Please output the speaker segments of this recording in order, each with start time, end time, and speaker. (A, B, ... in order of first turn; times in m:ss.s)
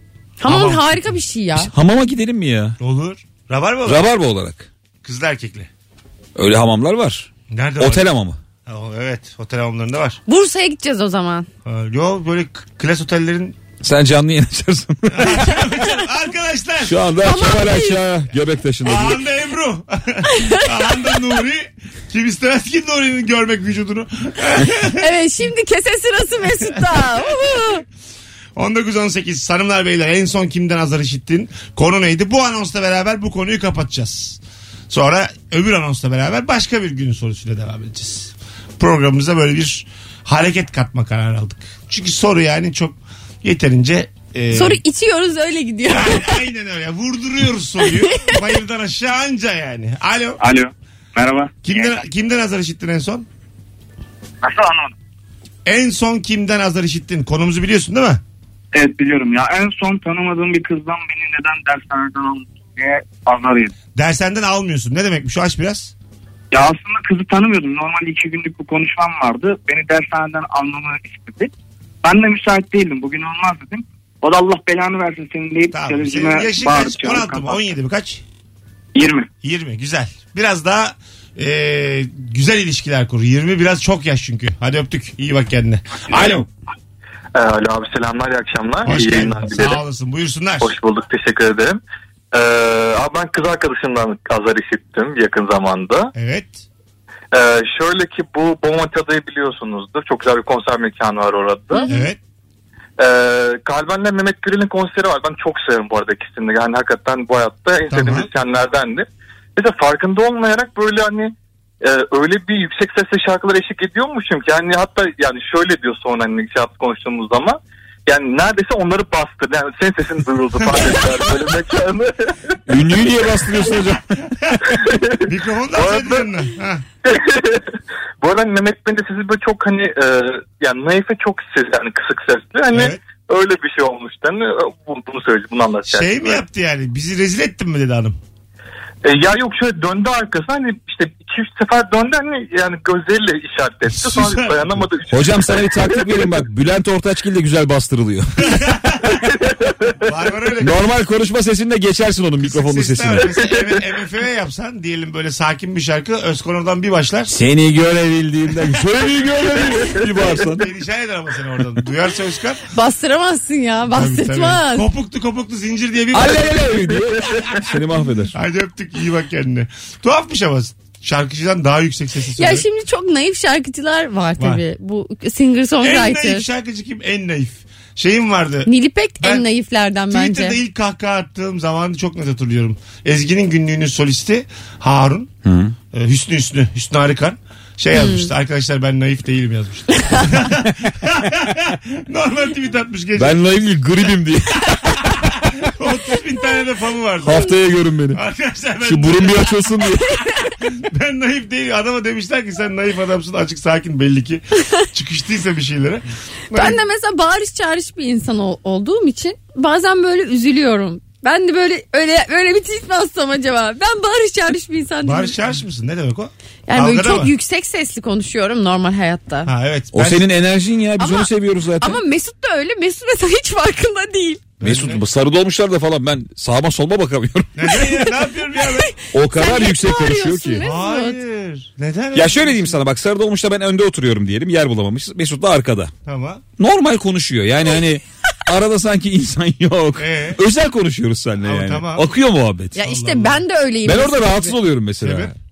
0:00.4-0:01.7 A
0:00.4-0:01.0 B
0:01.6-0:02.8 C
0:02.8-0:04.1 B
0:03.8-0:04.7 C
0:05.0-0:05.7 B
0:06.4-0:08.4 C
0:07.5-0:08.1 B
0:08.6-0:10.2 B
0:10.3-0:11.5 A
0:11.6-0:13.6 B
0:13.8-0:15.7 C
0:15.1-0:17.0 B
0:16.8-0:19.2 C
0:17.2-0:18.0 A
0:18.8-0:25.1 B
0:20.3-0:20.7 A
0:25.0-0:27.8 A
0:28.6-0:44.8 B
0:44.5-0:46.3 A
0:45.9-0:50.4 B
0:47.9-0:48.3 A
0:50.4-0:52.0 D
0:51.6-0:53.3 B
0:54.4-0:54.9 D
0:55.6-0:58.2 B
0:58.7-1:03.7 D
1:03.9-1:05.9 B
1:06.5-1:11.5 D
1:12.0-1:17.6 D
1:15.7-1:18.2 B
1:18.9-1:19.3 D
1:19.4-1:26.5 B
1:27.3-1:29.8 E
1:28.8-1:30.7 B
1:30.6-1:31.8 E
1:32.3-1:36.1 E
1:36.1-1:36.6 B
1:37.3-1:41.8 E
1:41.9-1:42.2 B
1:43.0-2:02.3 E
1:47.9-1:48.3 B
2:02.7-2:04.2 C
2:04.4-2:06.8 B
2:04.7-2:06.3 E
2:07.0-2:16.4 E
2:12.7-2:13.0 B
2:15.8-2:18.2 B
2:19.0-2:26.0 E
2:23.9-2:24.9 B
2:25.1-2:28.7 C
2:28.4-2:29.1 B
2:30.0-2:30.9 B
2:30.6-2:33.3 C
2:32.4-2:37.3 B
2:37.3-2:40.7 C
2:40.4-2:42.6 B
2:42.7-2:44.9 A
2:43.9-2:47.7 B
2:46.1-2:48.3 C
2:48.3-2:52.7 B
2:52.4-2:56.5 A
2:54.4-2:54.6 B
2:55.8-2:59.5 B
2:58.6-3:00.6 A
3:00.1-3:05.3 B
3:05.4-3:05.7 C
3:05.9-3:13.5 B
3:07.9-3:08.3 A
3:09.9-3:10.3 A
3:13.2-3:15.1 C
3:15.1-3:17.5 B
3:17.2-3:18.2 C
3:18.1-3:19.6 B
3:18.8-3:20.2 C
3:20.6-3:26.8 B
3:26.5-3:35.4 A
3:35.0-3:37.3 B
3:36.7-3:39.5 A
3:39.4-3:40.3 B
3:39.9-3:42.0 C
3:41.0-3:44.4 A
3:44.6-3:45.0 B
3:44.6-3:48.0 C
3:47.6-3:48.9 B
3:48.8-3:51.2 A
3:49.1-3:50.6 C
3:50.6-3:52.8 B
3:52.1-3:55.9 C
3:56.0-3:56.4 B
3:56.6-4:02.8 C
4:00.0-4:00.4 B
4:01.4-4:02.1 B
4:02.7-4:04.6 A
4:02.8-4:03.4 B
4:03.8-4:05.3 C
4:05.0-4:05.3 B